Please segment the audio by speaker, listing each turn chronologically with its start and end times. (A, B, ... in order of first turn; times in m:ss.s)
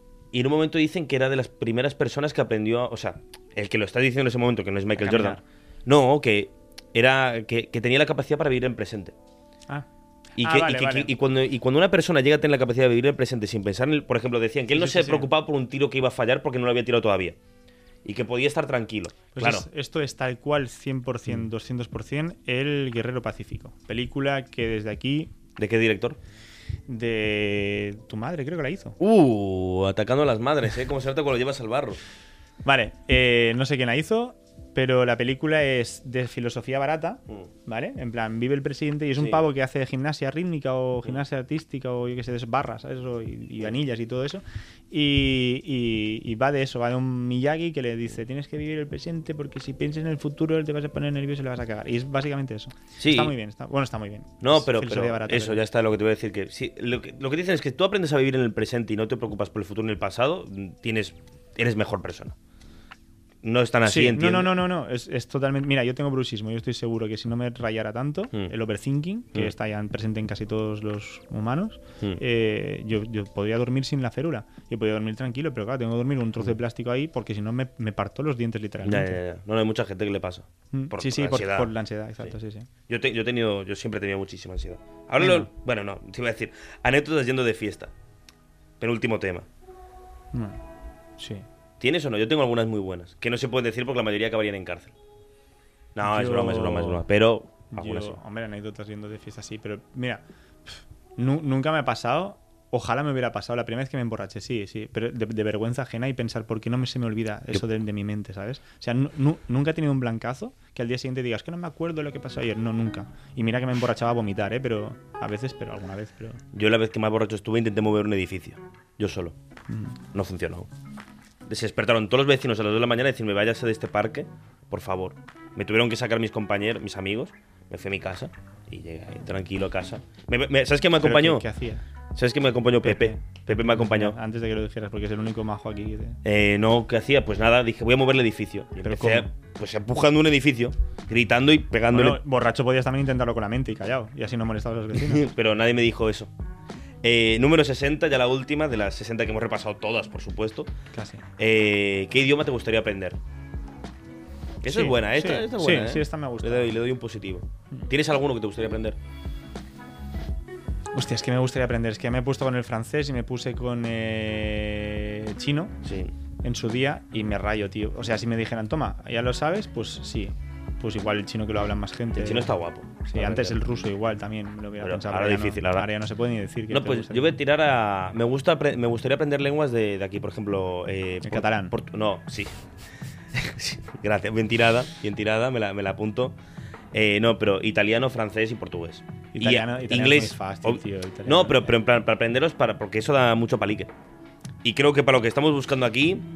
0:00.3-0:09.1 A
0:05.0-0:05.4 B
0:10.4-0:11.1 B
0:10.4-0:17.4 A
0:14.7-0:15.3 B
0:18.0-0:19.6 A
0:19.3-0:25.3 B
0:25.6-0:26.2 A
0:26.9-0:29.0 B
0:29.0-0:32.0 A
0:32.6-0:55.6 B
0:39.2-0:39.4 A
0:53.0-0:53.3 A
0:54.4-1:02.3 A
1:03.4-1:04.5 A
1:03.8-1:19.2 B
1:18.8-1:21.7 A
1:20.7-1:22.7 B
1:22.9-1:27.9 A
1:25.2-1:25.5 B
1:28.8-1:29.5 A
1:30.3-1:30.6 B
1:31.2-1:31.4 B
1:31.8-1:34.9 A
1:35.9-1:38.2 A
1:36.0-1:37.0 B
1:37.7-1:56.4 B
1:56.5-1:59.3 A
1:59.7-2:00.0 B
2:00.1-2:00.7 A
2:01.4-2:11.4 A
2:11.0-2:11.8 B
2:12.1-2:14.2 A
2:12.8-2:16.2 B
2:16.2-2:22.2 A
2:18.8-2:19.3 B
2:21.9-2:25.2 B
2:24.9-2:26.3 A
2:27.0-2:30.7 A
2:30.9-2:31.2 B
2:31.4-2:33.2 A
2:34.6-2:39.0 A
2:34.7-2:36.7 B
2:40.9-2:45.8 B
2:45.8-2:46.1 A
2:46.4-2:52.5 B
2:52.2-2:53.6 A
2:53.1-2:57.4 B
2:54.8-2:55.9 A
2:56.7-3:02.6 A
3:01.2-3:01.7 B
3:03.3-3:06.4 A
3:06.9-3:13.9 A
3:09.3-3:11.7 B
3:14.6-3:16.2 A